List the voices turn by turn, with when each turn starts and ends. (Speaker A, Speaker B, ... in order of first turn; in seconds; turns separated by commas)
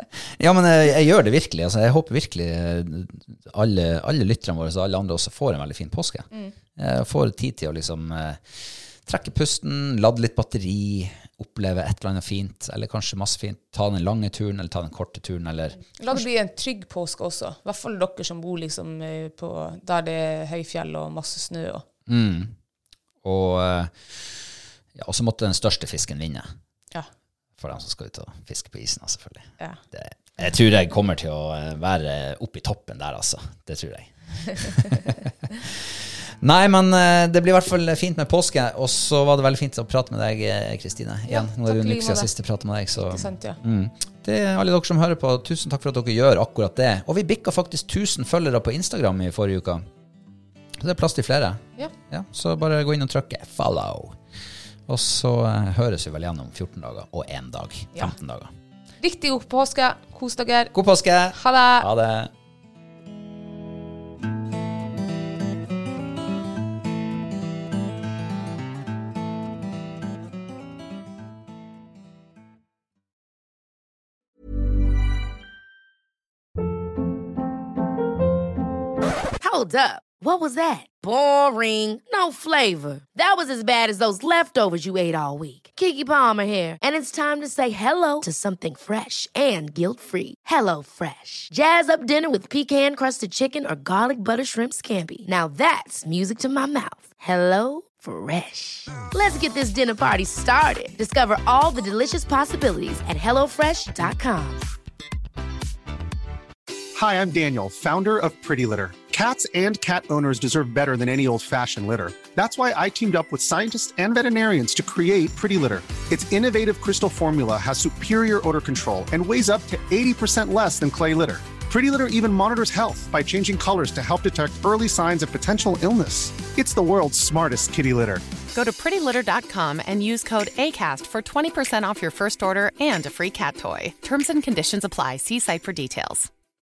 Speaker A: 0.3-15.8, Speaker B: 15.8-21.9, Speaker A: 22.1-22.5, Speaker A: 23.2-26.5, Speaker A: 27.6-49.9, Speaker B: 41.3-42.3, Speaker B: 43.0-43.6, Speaker A: 50.8-54.2, Speaker A: 54.9-58.5, Speaker B: 59.0-60.7, Speaker A: 60.7-62.3, Speaker B: 61.3-61.9, Speaker C: 79.4-104.6, Speaker D: 107.0-128.2, Speaker E: 128.5-136.3